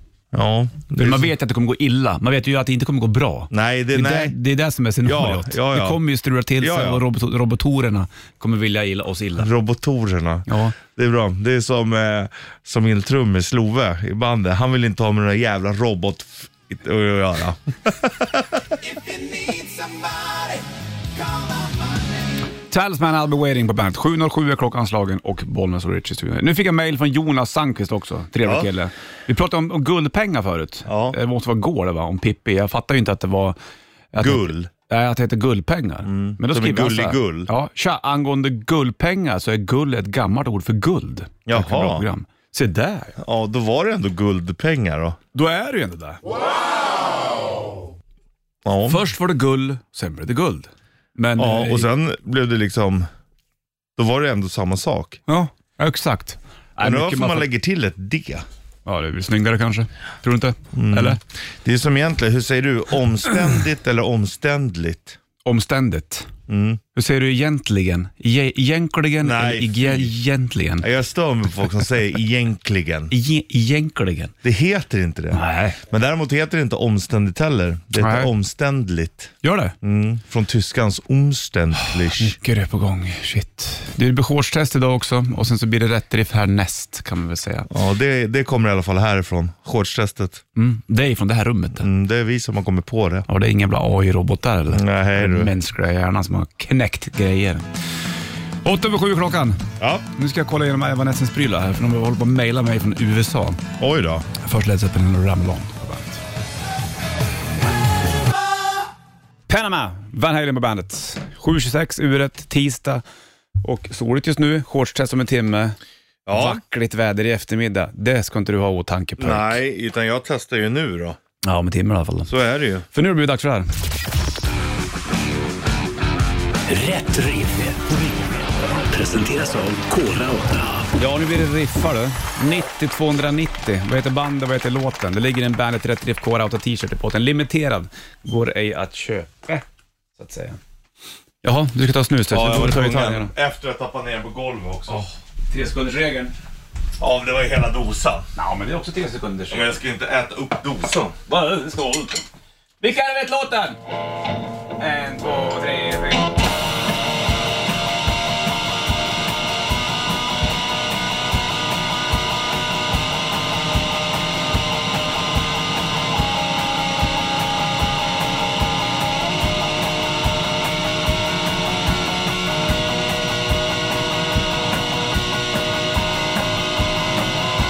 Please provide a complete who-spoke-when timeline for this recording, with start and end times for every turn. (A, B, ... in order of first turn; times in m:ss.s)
0:00.3-0:01.3 A
0:01.0-0:09.5 B
0:03.5-0:04.4 A
0:05.0-0:06.0 A
0:06.6-0:07.0 A
0:09.4-0:18.6 A
0:10.5-0:10.8 B
0:18.8-0:20.6 C
0:21.2-0:22.0 C
0:22.7-0:33.6 B
0:30.9-0:31.2 A
0:34.1-0:43.2 B
0:34.2-0:34.7 A
0:36.0-0:37.5 A
0:41.5-0:42.0 A
0:43.2-0:45.2 A
0:45.3-0:46.2 B
0:48.6-0:49.0 A
0:48.9-0:51.9 B
0:51.4-0:53.1 A
0:54.0-0:55.2 A
0:55.3-0:57.5 B
0:56.8-0:58.4 A
0:58.9-1:01.2 B
1:00.7-1:05.2 A
1:05.4-1:06.3 B
1:06.5-1:06.8 A
1:07.0-1:10.9 B
1:09.2-1:10.1 A
1:10.8-1:13.1 A
1:13.1-1:14.3 B
1:14.4-1:22.4 A
1:15.3-1:15.8 B
1:18.0-1:18.3 B
1:19.4-1:19.8 B
1:21.8-1:27.7 B
1:27.7-1:30.4 A
1:30.6-1:31.9 B
1:31.8-1:33.3 A
1:33.3-1:37.6 B
1:34.7-1:35.5 A
1:38.6-1:39.6 B
1:39.8-1:40.0 A
1:40.2-1:43.6 B
1:43.8-1:44.3 A
1:44.4-1:46.2 B
1:49.5-1:53.0 B
1:53.6-1:55.8 B
1:56.3-1:56.6 A
1:56.3-1:59.6 B
1:59.2-2:01.2 A
2:01.4-2:02.3 B
2:02.3-2:02.8 A
2:02.9-2:03.7 B
2:06.7-2:10.9 C
2:10.9-2:19.6 B
2:20.2-2:20.6 B
2:21.4-2:23.3 B
2:22.3-2:25.0 A
2:24.9-2:26.3 B
2:27.0-2:28.3 A
2:28.4-2:29.7 B
2:29.5-2:31.2 A
2:31.3-2:32.2 B
2:32.8-2:33.8 B
2:34.8-2:36.3 B